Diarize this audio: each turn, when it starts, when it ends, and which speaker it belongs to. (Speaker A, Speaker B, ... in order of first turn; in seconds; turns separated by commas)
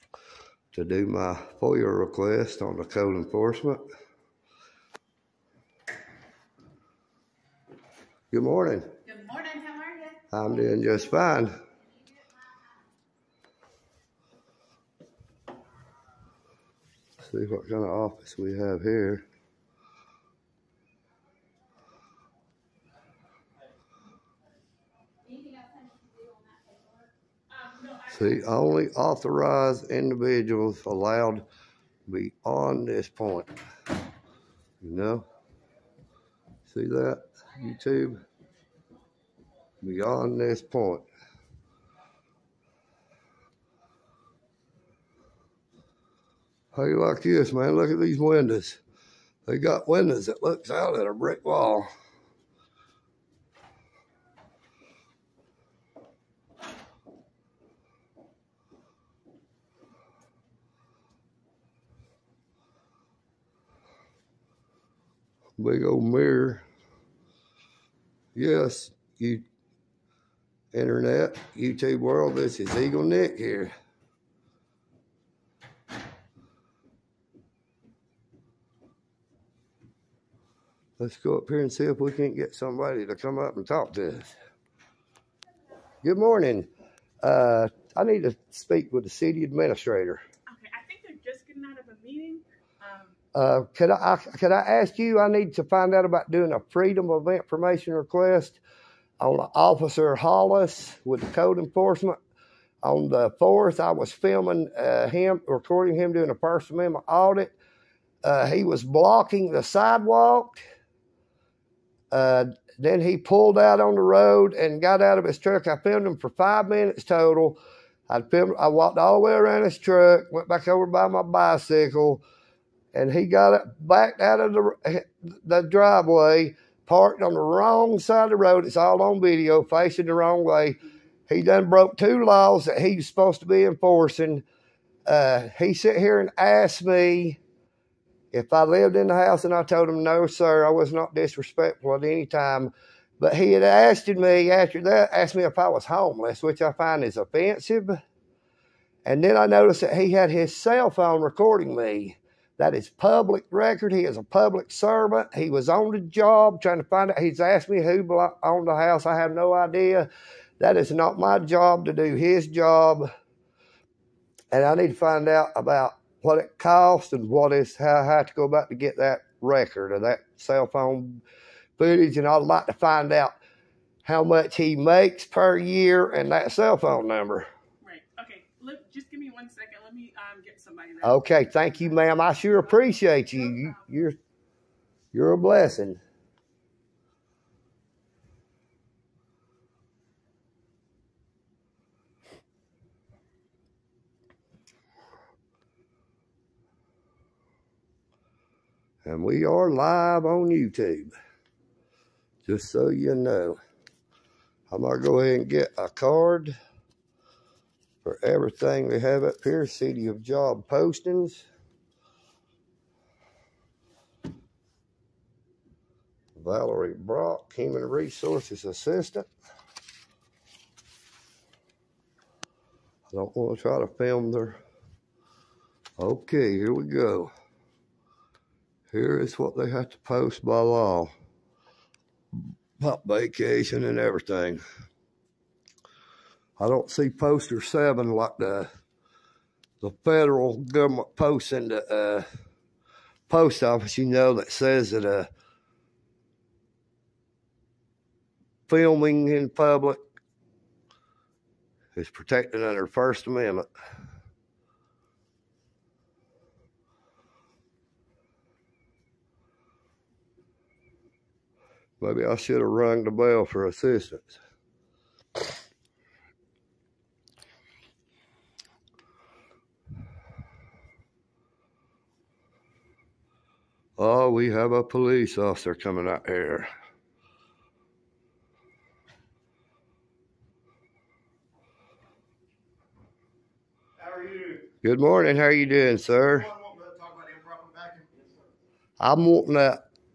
Speaker A: 0.7-3.8, Speaker A: 8.3-8.9, Speaker B: 9.0-10.2, Speaker A: 10.3-11.6, Speaker B: 11.1-12.9, Speaker A: 17.2-19.2, Speaker B: 25.2-27.1, Speaker A: 28.1-31.4, Speaker A: 32.1-33.5, Speaker A: 34.8-35.2, Speaker A: 36.7-38.2, Speaker A: 39.8-41.0, Speaker A: 46.7-48.8, Speaker A: 49.5-51.9, Speaker A: 65.6-66.6, Speaker A: 68.3-69.4, Speaker A: 70.7-73.7, Speaker A: 81.0-84.3, Speaker A: 86.0-86.7, Speaker A: 87.2-90.2, Speaker C: 90.5-93.1, Speaker A: 93.3-98.6, Speaker A: 99.2-102.2, Speaker A: 102.8-107.5, Speaker A: 108.2-110.6, Speaker A: 112.1-122.2, Speaker A: 122.9-134.4, Speaker A: 135.1-137.4, Speaker A: 138.3-148.0, Speaker A: 149.0-160.1, Speaker A: 160.6-163.1, Speaker A: 164.5-171.2, Speaker A: 171.8-173.3, Speaker A: 174.0-177.5, Speaker C: 177.8-181.2, Speaker A: 181.0-184.2, Speaker A: 185.1-186.0, Speaker A: 199.0-201.1, Speaker A: 202.4-203.6, Speaker A: 204.7-206.5, Speaker A: 208.0-211.4, Speaker A: 216.3-219.3, Speaker A: 223.1-224.6, Speaker A: 226.0-227.3, Speaker A: 228.9-231.1, Speaker A: 232.8-234.6, Speaker A: 236.6-238.7, Speaker A: 239.8-242.2, Speaker A: 243.3-245.3, Speaker A: 248.7-250.0, Speaker A: 251.9-253.7, Speaker A: 262.0-264.4, Speaker A: 274.0-276.7, Speaker D: 284.0-284.7, Speaker A: 284.8-286.5, Speaker D: 286.2-288.4, Speaker A: 289.0-289.8